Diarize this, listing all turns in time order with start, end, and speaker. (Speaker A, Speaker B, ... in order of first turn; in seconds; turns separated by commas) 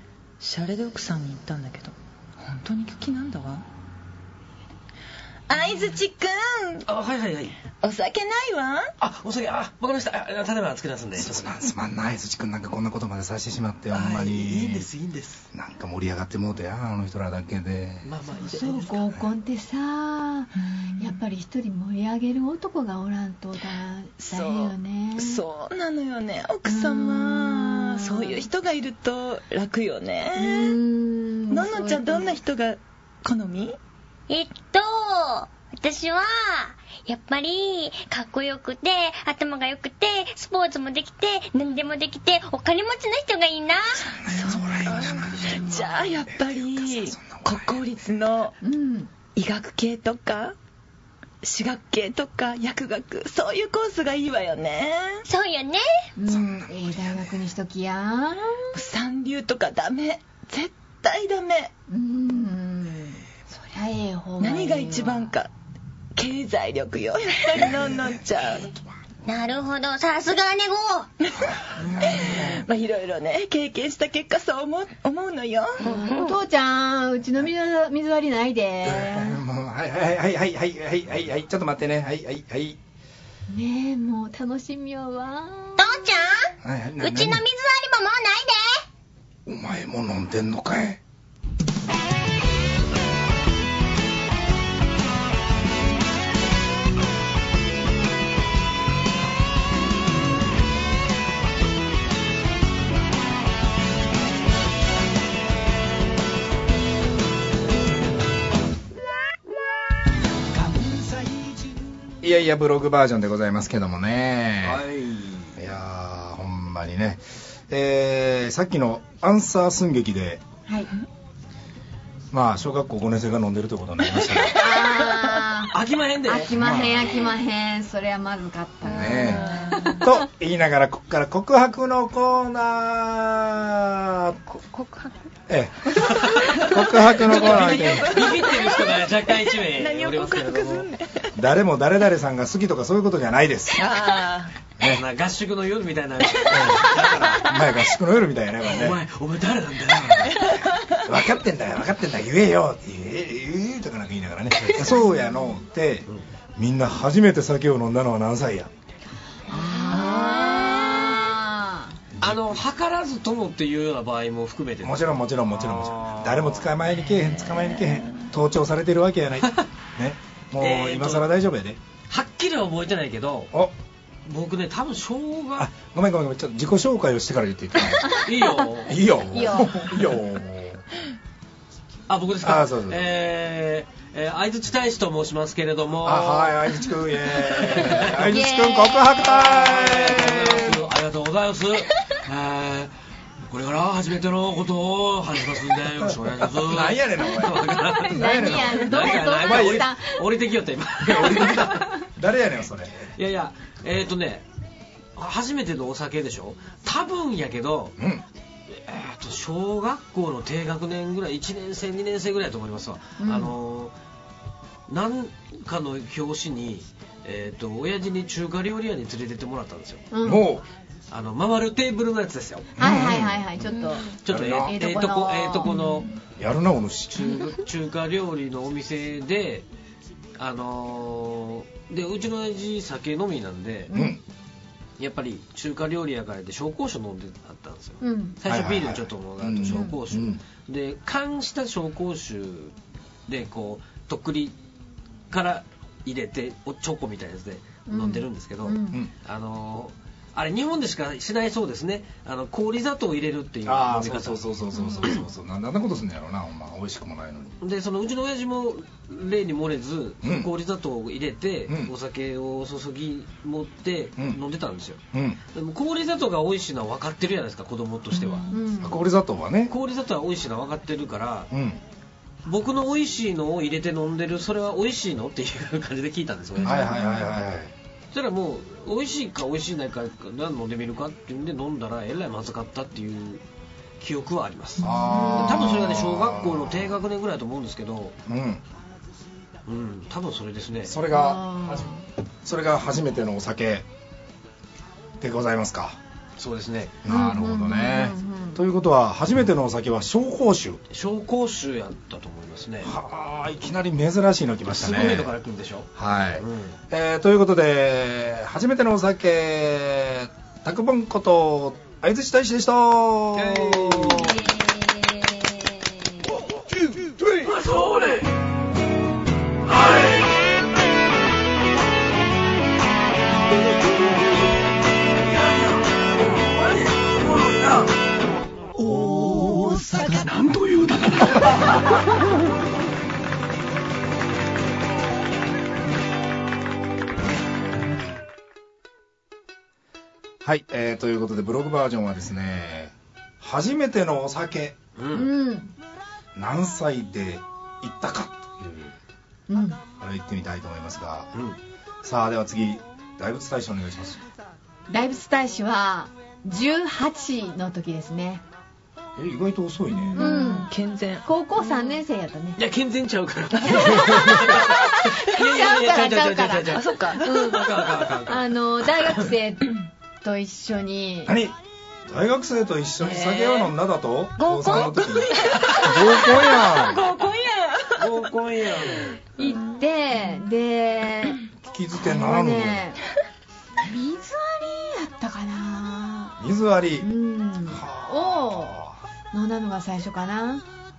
Speaker A: 0.4-3.6, Speaker A: 5.5-6.8, Speaker B: 6.9-7.5, Speaker A: 7.8-8.9, Speaker B: 9.0-11.6, Speaker C: 11.2-14.9, Speaker B: 13.9-15.5, Speaker C: 15.5-18.1, Speaker B: 18.0-19.1, Speaker D: 18.4-25.4, Speaker A: 20.6-21.2, Speaker A: 24.2-30.8, Speaker D: 26.6-28.4, Speaker D: 30.3-32.3, Speaker A: 31.5-33.8, Speaker E: 34.3-44.1, Speaker C: 44.0-47.8, Speaker A: 44.3-48.5, Speaker B: 44.9-45.8, Speaker D: 48.6-49.1, Speaker A: 49.4-50.5, Speaker A: 51.4-55.2, Speaker E: 55.2-55.8, Speaker D: 56.2-58.7, Speaker C: 56.3-57.4, Speaker A: 58.7-61.7, Speaker D: 61.9-65.3, Speaker A: 64.4-65.5, Speaker A: 66.2-68.7, Speaker C: 67.6-68.2, Speaker E: 69.2-71.1, Speaker A: 71.2-75.8, Speaker C: 71.7-72.6, Speaker E: 75.8-76.3, Speaker D: 75.8-79.4, Speaker C: 78.8-82.8, Speaker D: 83.5-86.0, Speaker E: 85.8-88.8, Speaker C: 86.6-87.4, Speaker C: 89.5-91.0, Speaker C: 112.2-114.8, Speaker B: 114.6-115.6, Speaker C: 115.5-120.4, Speaker C: 122.3-124.6, Speaker D: 124.5-129.4, Speaker B: 124.7-126.5, Speaker C: 126.5-127.2, Speaker C: 128.8-129.4, Speaker E: 128.9-130.0, Speaker A: 129.3-130.0, Speaker C: 130.0-134.4, Speaker E: 134.5-135.1, Speaker C: 135.5-138.2, Speaker A: 136.3-141.3, Speaker B: 137.3-140.9, Speaker C: 141.3-143.9, Speaker A: 143.8-144.5, Speaker C: 144.8-145.0, Speaker B: 144.8-147.3, Speaker C: 146.5-149.0, Speaker B: 148.6-150.5, Speaker C: 150.0-150.3, Speaker A: 150.4-150.9, Speaker C: 151.0-158.7, Speaker B: 154.6-154.9, Speaker D: 155.0-155.6, Speaker D: 159.5-162.0, Speaker E: 159.8-161.0, Speaker A: 159.9-160.9, Speaker C: 162.2-162.6, Speaker B: 162.2-166.8, Speaker C: 164.8-171.8, Speaker A: 167.2-168.2, Speaker B: 170.6-171.3, Speaker B: 172.1-173.5, Speaker B: 174.2-175.7, Speaker C: 175.6-178.2, Speaker B: 178.2-179.5, Speaker C: 178.8-180.8, Speaker D: 179.3-180.1, Speaker B: 182.1-186.8, Speaker C: 182.4-183.1, Speaker C: 186.0-190.8, Speaker B: 187.4-188.2, Speaker D: 188.2-190.7, Speaker B: 189.3-192.9, Speaker B: 193.4-201.9, Speaker C: 196.0-199.9, Speaker D: 197.8-200.2, Speaker C: 201.0-203.1, Speaker D: 201.4-201.9, Speaker B: 203.2-204.4, Speaker B: 205.2-208.0, Speaker C: 208.0-208.2, Speaker B: 208.7-213.9, Speaker D: 213.2-213.5, Speaker B: 214.9-220.1, Speaker D: 220.1-220.4, Speaker C: 220.2-220.7, Speaker B: 221.1-222.9, Speaker C: 222.8-223.4, Speaker D: 222.8-226.1, Speaker E: 223.8-224.1, Speaker B: 224.2-226.1, Speaker C: 224.2-224.8, Speaker C: 226.4-227.4, Speaker B: 227.1-229.6, Speaker B: 230.4-233.9, Speaker D: 233.9-234.2, Speaker C: 233.9-234.2, Speaker B: 235.0-242.7, Speaker D: 238.0-238.4, Speaker C: 238.4-240.4, Speaker D: 239.7-240.0, Speaker B: 243.3-244.5, Speaker B: 245.3-254.4, Speaker D: 247.9-249.0, Speaker C: 253.6-257.6, Speaker D: 254.7-255.1, Speaker B: 257.6-265.0, Speaker C: 260.2-260.5, Speaker C: 261.7-261.9, Speaker C: 265.1-265.4, Speaker B: 265.5-268.5, Speaker D: 268.5-269.0, Speaker C: 268.8-269.7, Speaker B: 269.7-271.5, Speaker C: 271.5-271.8, Speaker B: 272.4-277.0, Speaker C: 276.6-277.7, Speaker D: 276.7-277.3, Speaker B: 278.1-283.4, Speaker B: 284.0-288.1, Speaker A: 284.8-285.3, Speaker C: 284.8-287.0, Speaker D: 285.0-285.8, Speaker C: 288.2-288.6, Speaker B: 289.6-290.9, Speaker C: 290.8-291.9, Speaker D: 291.1-292.0, Speaker C: 292.4-293.9, Speaker C: 295.2-296.0, Speaker B: 296.4-297.0, Speaker C: 297.0-300.8, Speaker D: 297.1-298.6, Speaker B: 300.9-302.9, Speaker C: 302.8-305.3, Speaker B: 304.7-306.8, Speaker C: 305.9-314.5, Speaker B: 313.3-314.5, Speaker B: 317.4-318.3, Speaker B: 319.7-320.4, Speaker B: 325.2-327.9, Speaker B: 329.6-332.0, Speaker C: 340.4-344.8, Speaker B: 344.9-345.3, Speaker D: 345.1-345.7, Speaker C: 346.3-348.9, Speaker D: 349.5-349.8, Speaker C: 350.0-351.3, Speaker C: 352.0-354.2, Speaker D: 354.9-358.4, Speaker C: 359.1-360.3, Speaker A: 359.9-361.9, Speaker D: 360.1-360.7, Speaker D: 361.2-362.6, Speaker B: 362.6-369.3, Speaker A: 363.5-364.9, Speaker D: 363.8-371.3, Speaker A: 366.7-367.5, Speaker C: 371.2-377.0, Speaker A: 373.0-373.7, Speaker E: 374.4-375.0, Speaker A: 374.6-378.1, Speaker B: 378.0-379.2, Speaker A: 379.4-380.4, Speaker D: 379.4-381.4, Speaker C: 381.6-382.8, Speaker D: 381.9-383.0, Speaker D: 383.8-386.4, Speaker C: 386.4-389.0, Speaker D: 387.0-388.7, Speaker D: 389.3-390.6